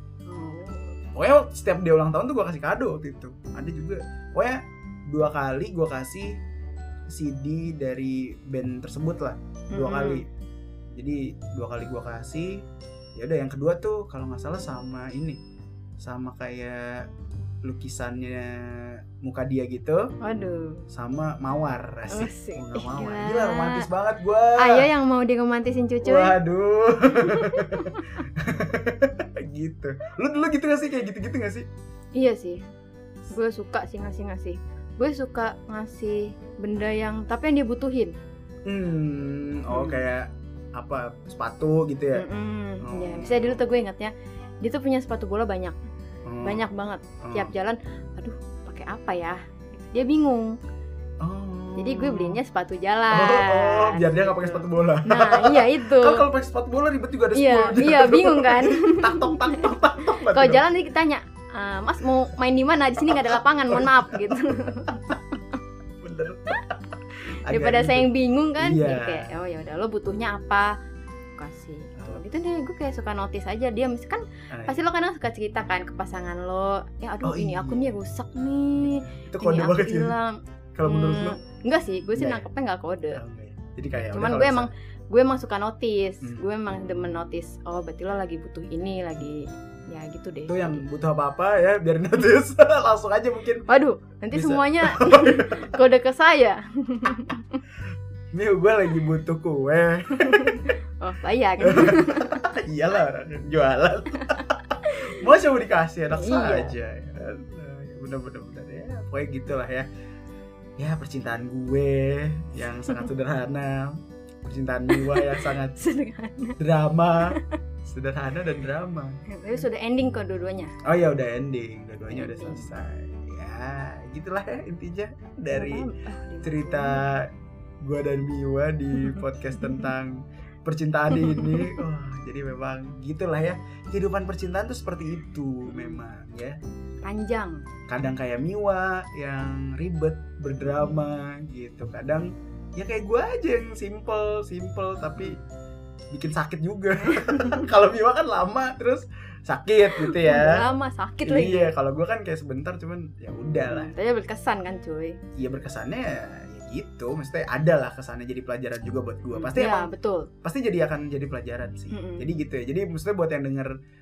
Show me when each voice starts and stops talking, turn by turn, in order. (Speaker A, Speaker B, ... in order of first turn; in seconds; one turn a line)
Speaker A: 0.3-1.0
Speaker B: 1.1-6.4
Speaker B: 7.1-10.2
Speaker A: 9.7-10.2
Speaker B: 10.9-12.6
Speaker B: 13.2-15.4
Speaker B: 16.0-17.0
Speaker B: 17.6-20.1
Speaker A: 20.2-20.9
Speaker B: 20.9-24.9
Speaker A: 22.1-23.9
Speaker A: 24.6-26.4
Speaker B: 26.0-31.7
Speaker A: 27.1-28.1
Speaker A: 32.2-32.6
Speaker A: 33.3-38.2
Speaker B: 38.7-42.3
Speaker A: 39.7-40.0
Speaker A: 42.1-45.8
Speaker B: 42.8-43.6
Speaker B: 46.3-46.6
Speaker A: 46.4-50.6
Speaker B: 47.2-47.5
Speaker B: 51.2-52.4
Speaker A: 51.8-56.3
Speaker B: 53.1-60.6
Speaker A: 57.3-65.6
Speaker B: 63.0-64.7
Speaker B: 66.0-69.3
Speaker A: 67.5-70.7
Speaker A: 71.4-83.2
Speaker B: 74.5-74.8
Speaker B: 77.2-77.8
Speaker B: 78.8-80.1
Speaker B: 80.7-81.4
Speaker B: 82.2-82.5
Speaker B: 83.1-84.7
Speaker A: 84.1-90.8
Speaker B: 90.5-93.7
Speaker A: 93.7-97.6
Speaker B: 94.3-95.7
Speaker B: 98.3-100.7
Speaker A: 100.2-102.4
Speaker B: 101.6-109.9
Speaker A: 104.3-105.3
Speaker A: 106.1-106.8
Speaker B: 110.8-115.8
Speaker A: 114.9-116.6
Speaker B: 116.6-119.6
Speaker A: 119.3-120.8
Speaker B: 120.8-125.9
Speaker A: 122.1-122.7
Speaker A: 125.5-127.0
Speaker B: 126.4-127.3
Speaker B: 127.8-136.6
Speaker A: 131.1-131.8
Speaker A: 135.7-136.0
Speaker A: 137.0-137.6
Speaker B: 137.9-145.4
Speaker B: 146.1-150.7
Speaker A: 147.0-147.7
Speaker A: 149.9-151.7
Speaker B: 151.2-153.9
Speaker A: 153.7-155.2
Speaker B: 155.4-159.9
Speaker A: 159.3-160.3
Speaker B: 160.4-163.7
Speaker A: 161.9-162.3